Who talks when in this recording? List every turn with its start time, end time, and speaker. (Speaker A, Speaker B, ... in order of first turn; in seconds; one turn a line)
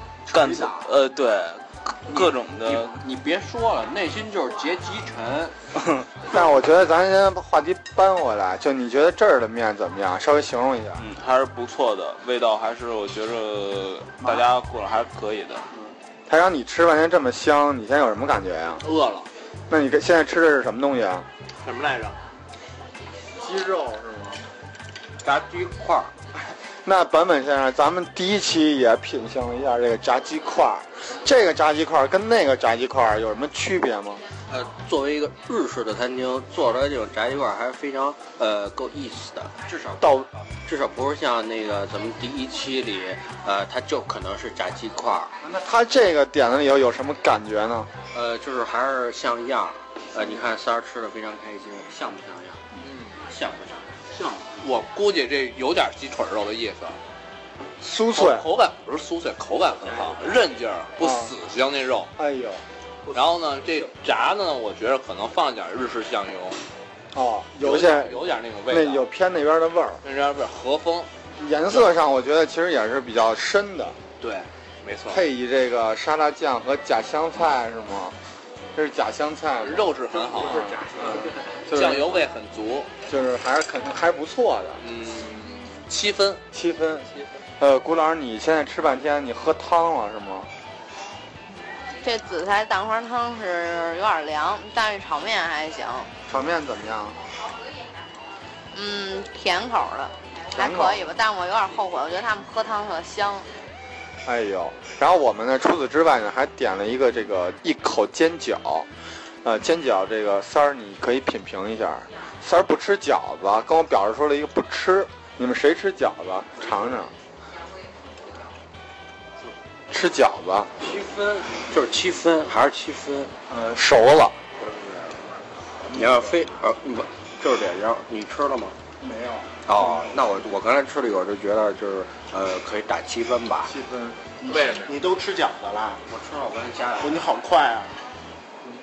Speaker A: 0.3-0.9
Speaker B: 0.3-3.0
Speaker A: 2.1-5.5
Speaker C: 6.2-11.0
Speaker B: 10.9-15.6
Speaker C: 16.3-18.8
Speaker D: 18.8-19.3
Speaker C: 19.7-21.3
Speaker D: 21.6-22.2
Speaker C: 23.4-24.4
Speaker A: 25.2-26.1
Speaker C: 26.8-34.2
Speaker A: 34.5-40.1
Speaker C: 40.0-40.3
Speaker A: 40.6-45.3
Speaker C: 45.4-47.9
Speaker A: 48.1-52.6
Speaker D: 52.8-53.2
Speaker A: 53.2-54.0
Speaker D: 54.3-57.0
Speaker C: 57.8-58.5
Speaker D: 58.1-62.1
Speaker A: 60.0-60.3
Speaker C: 61.0-61.3
Speaker C: 62.2-62.6
Speaker D: 63.1-66.6
Speaker C: 67.1-70.0
Speaker D: 67.6-69.0
Speaker D: 70.0-71.1
Speaker C: 71.4-74.0
Speaker D: 74.2-75.2
Speaker C: 75.1-78.2
Speaker C: 78.8-82.3
Speaker D: 79.6-82.9
Speaker C: 83.1-84.8
Speaker D: 84.8-86.4
Speaker C: 86.5-90.5
Speaker E: 92.0-96.1
Speaker C: 96.3-97.2
Speaker E: 98.7-103.5
Speaker C: 100.5-101.1
Speaker C: 104.2-108.9
Speaker C: 109.4-117.1
Speaker C: 119.9-120.7
Speaker A: 120.8-123.3
Speaker C: 123.5-124.4
Speaker C: 125.9-126.3
Speaker A: 125.9-128.8
Speaker C: 129.0-129.5
Speaker A: 129.7-133.7
Speaker C: 133.7-134.9
Speaker F: 134.4-136.0
Speaker A: 136.1-137.2
Speaker F: 137.0-138.0